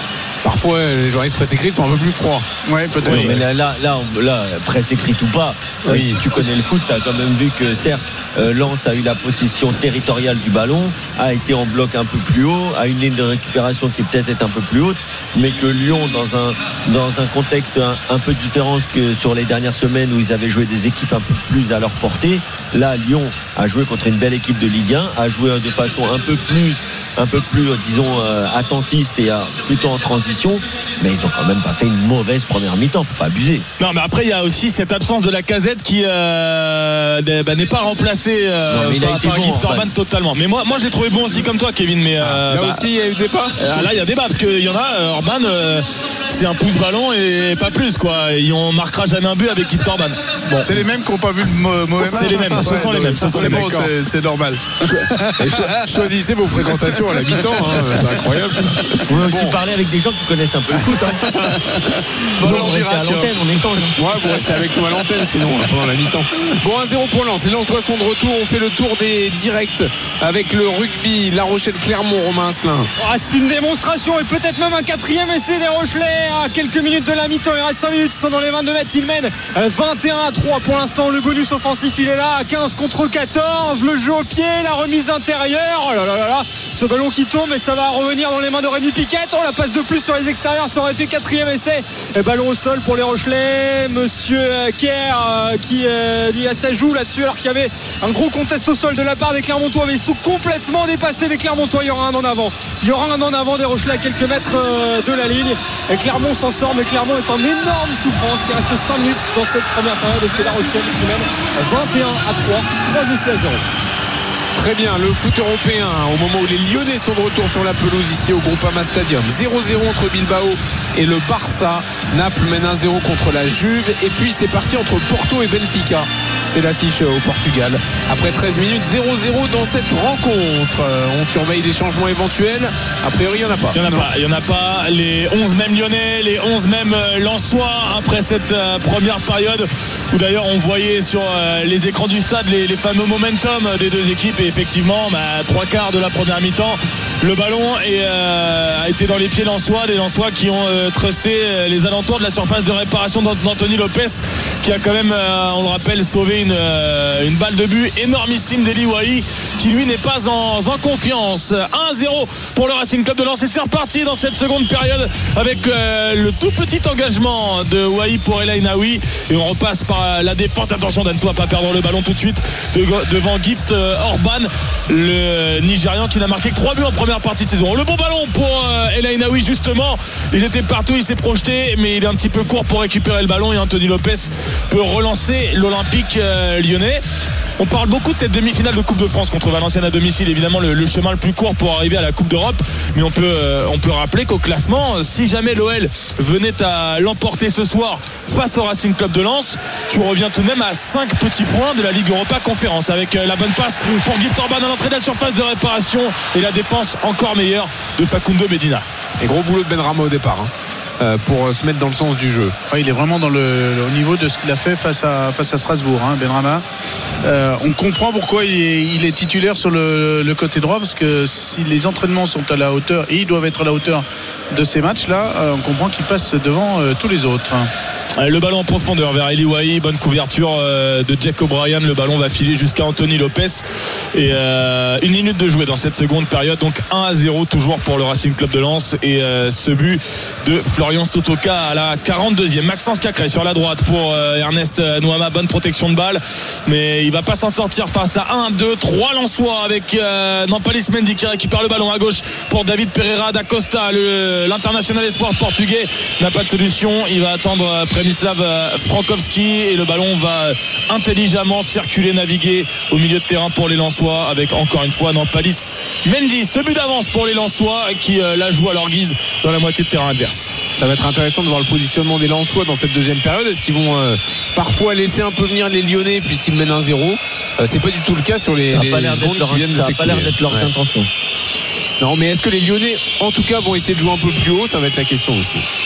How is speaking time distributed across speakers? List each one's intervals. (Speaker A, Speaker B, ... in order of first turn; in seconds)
Speaker A: 0.4-2.4, 5.8-6.2, 42.2-43.9, 53.2-53.9, 55.4-59.6, 64.0-72.9, 114.5-133.7, 209.2-212.5, 270.7-280.7, 282.0-285.6
Speaker B: 2.6-3.4, 50.6-58.9, 60.8-63.3, 63.9-65.1, 133.8-134.1, 212.7-216.6, 217.2-227.7
Speaker C: 3.0-3.3, 33.8-42.8, 43.6-50.8, 52.0-53.7, 133.7-187.0, 187.6-208.8, 228.2-233.6, 234.1-270.5
Speaker D: 3.1-33.6, 38.7-39.9, 59.0-61.5, 62.4-64.0, 278.7-281.1
Speaker E: 73.0-113.6